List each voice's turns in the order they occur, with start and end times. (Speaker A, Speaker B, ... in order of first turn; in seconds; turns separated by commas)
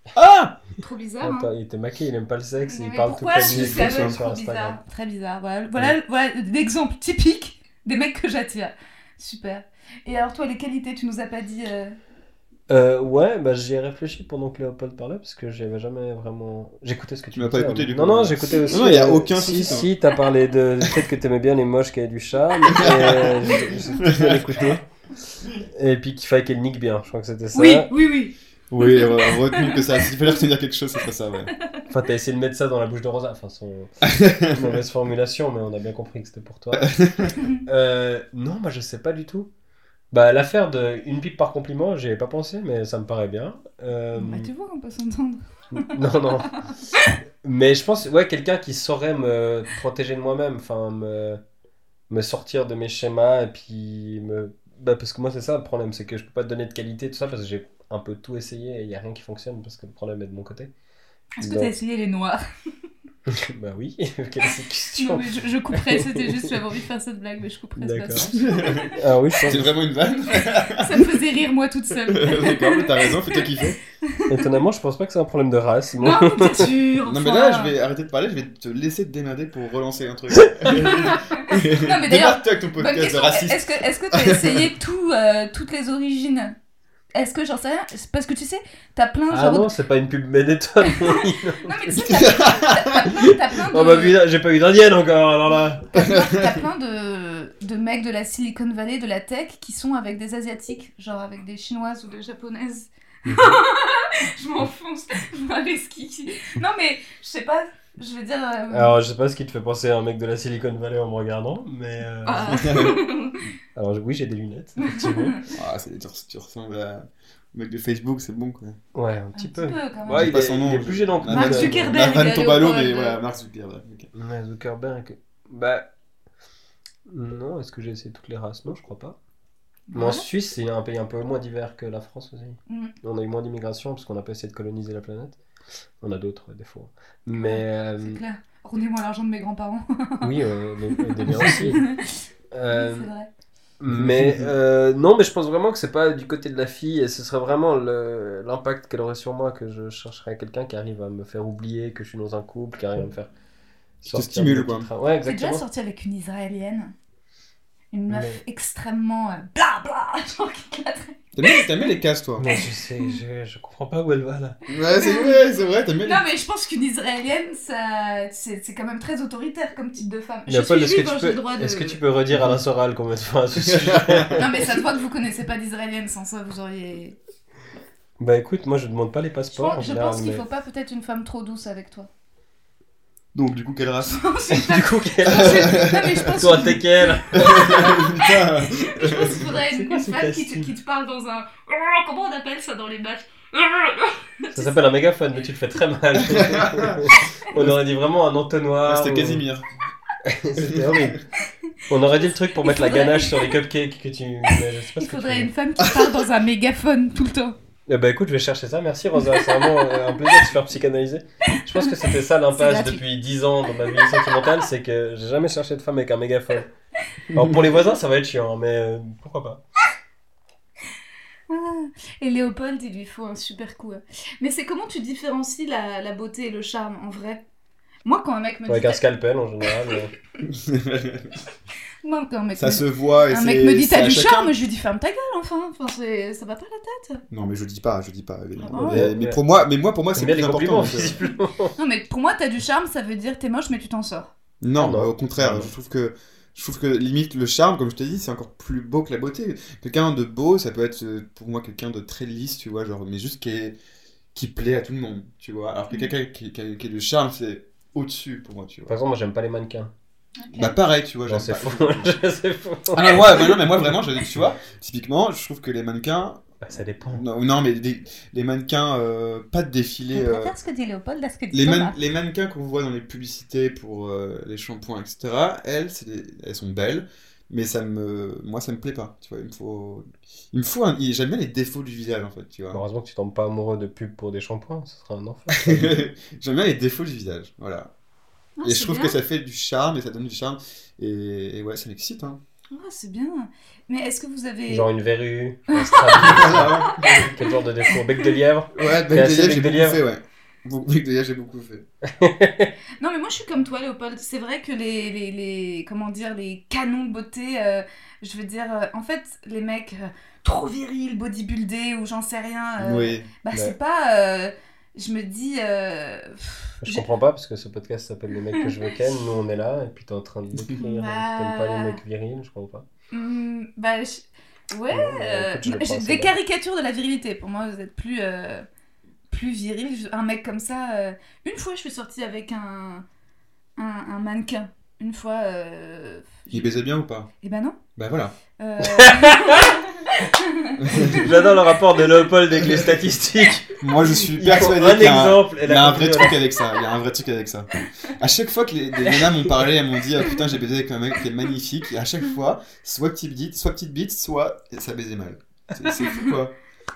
Speaker A: 0.1-0.6, Speaker B: 0.8-1.5, Speaker C: 1.2-4.8, Speaker B: 2.7-12.0, Speaker A: 3.5-4.2, Speaker C: 12.7-24.8, Speaker A: 17.4-19.9, Speaker A: 22.7-24.5, Speaker C: 25.7-27.9, Speaker B: 27.5-29.8, Speaker A: 28.7-31.5, Speaker C: 31.9-37.0, Speaker A: 34.0-34.7, Speaker A: 36.7-37.3, Speaker C: 37.7-39.5, Speaker C: 40.1-44.5, Speaker B: 44.2-46.0, Speaker C: 45.8-46.6, Speaker C: 47.4-51.4, Speaker C: 52.1-60.7, Speaker B: 61.4-62.4, Speaker C: 61.4-61.7, Speaker C: 63.3-66.5, Speaker B: 64.9-68.9, Speaker C: 67.8-68.3, Speaker A: 68.2-71.2, Speaker C: 68.9-69.7, Speaker B: 70.3-73.4, Speaker A: 72.1-73.8, Speaker C: 74.3-76.7, Speaker B: 76.0-77.7, Speaker A: 77.1-84.7, Speaker B: 80.8-86.5, Speaker B: 87.1-89.7, Speaker C: 89.3-92.2, Speaker B: 90.9-94.2, Speaker A: 92.1-93.1, Speaker C: 93.7-95.9, Speaker B: 95.9-109.0, Speaker A: 96.0-96.6, Speaker C: 103.3-103.6, Speaker C: 108.7-112.6, Speaker B: 112.2-113.4, Speaker A: 112.4-113.0, Speaker C: 113.7-115.4, Speaker B: 114.8-115.4, Speaker A: 115.5-118.8, Speaker C: 118.9-122.0, Speaker B: 119.4-120.3, Speaker A: 120.1-124.1, Speaker B: 121.3-123.2, Speaker C: 124.1-125.9, Speaker C: 127.1-129.2, Speaker B: 129.9-130.3, Speaker C: 129.9-135.4, Speaker B: 132.7-132.9, Speaker C: 136.0-138.2, Speaker B: 137.3-140.3, Speaker C: 140.2-141.9, Speaker B: 140.9-142.1, Speaker C: 142.5-143.1, Speaker B: 142.7-143.3, Speaker C: 143.8-153.3, Speaker A: 143.9-144.5, Speaker C: 154.0-155.6, Speaker A: 154.1-154.9, Speaker B: 155.3-156.9, Speaker B: 157.9-161.6, Speaker C: 158.1-158.4, Speaker A: 161.3-162.4, Speaker C: 162.4-164.6, Speaker B: 162.5-163.2, Speaker A: 164.7-166.2, Speaker B: 164.9-165.4, Speaker B: 166.0-172.0, Speaker C: 170.5-174.5, Speaker A: 172.3-172.6, Speaker A: 173.6-174.4, Speaker B: 174.4-177.2, Speaker C: 178.2-180.4, Speaker B: 179.5-182.1, Speaker A: 183.3-184.2, Speaker B: 184.0-194.8, Speaker C: 184.5-188.1, Speaker A: 185.4-186.3, Speaker A: 187.3-189.4, Speaker C: 189.2-190.7, Speaker C: 194.5-199.4, Speaker A: 196.2-197.9, Speaker A: 198.8-199.7, Speaker C: 200.2-201.2, Speaker A: 200.6-201.1, Speaker C: 201.9-205.5, Speaker B: 202.6-203.5, Speaker B: 205.0-207.6, Speaker C: 207.9-216.7, Speaker B: 209.2-210.2, Speaker B: 212.5-213.0, Speaker B: 213.9-214.3, Speaker C: 217.3-219.6, Speaker B: 221.5-227.4, Speaker B: 228.1-229.0, Speaker C: 228.7-230.1, Speaker A: 230.4-231.3, Speaker B: 232.0-237.2, Speaker A: 232.6-234.6, Speaker A: 237.3-241.2, Speaker B: 238.6-239.1, Speaker C: 238.8-239.4, Speaker C: 240.1-241.7, Speaker B: 241.8-244.3, Speaker A: 244.6-253.8, Speaker C: 244.8-245.7, Speaker A: 254.3-258.9, Speaker C: 258.9-259.9, Speaker B: 260.4-260.8, Speaker A: 260.6-262.2, Speaker C: 261.3-263.9, Speaker A: 262.9-270.5, Speaker C: 266.6-267.2, Speaker B: 270.1-272.0, Speaker A: 271.5-282.8, Speaker C: 282.7-286.0, Speaker A: 285.5-287.9, Speaker B: 288.6-289.2, Speaker A: 288.6-292.4, Speaker B: 292.7-294.9, Speaker C: 294.7-300.0, Speaker B: 295.7-298.4, Speaker A: 296.2-297.3, Speaker A: 298.7-301.9, Speaker C: 302.1-302.7, Speaker B: 303.0-317.1, Speaker A: 312.8-313.3, Speaker C: 316.8-322.9, Speaker B: 318.5-318.9, Speaker B: 320.8-322.0, Speaker B: 323.1-328.7, Speaker C: 324.9-326.4, Speaker B: 329.3-333.1, Speaker B: 333.8-336.7, Speaker A: 336.5-337.3, Speaker B: 337.4-337.8, Speaker A: 337.9-338.4, Speaker B: 338.6-341.5, Speaker C: 338.9-339.7, Speaker A: 340.8-341.2, Speaker C: 340.9-343.8, Speaker A: 342.6-342.9, Speaker A: 343.8-356.6, Speaker C: 344.3-346.4, Speaker C: 349.0-349.5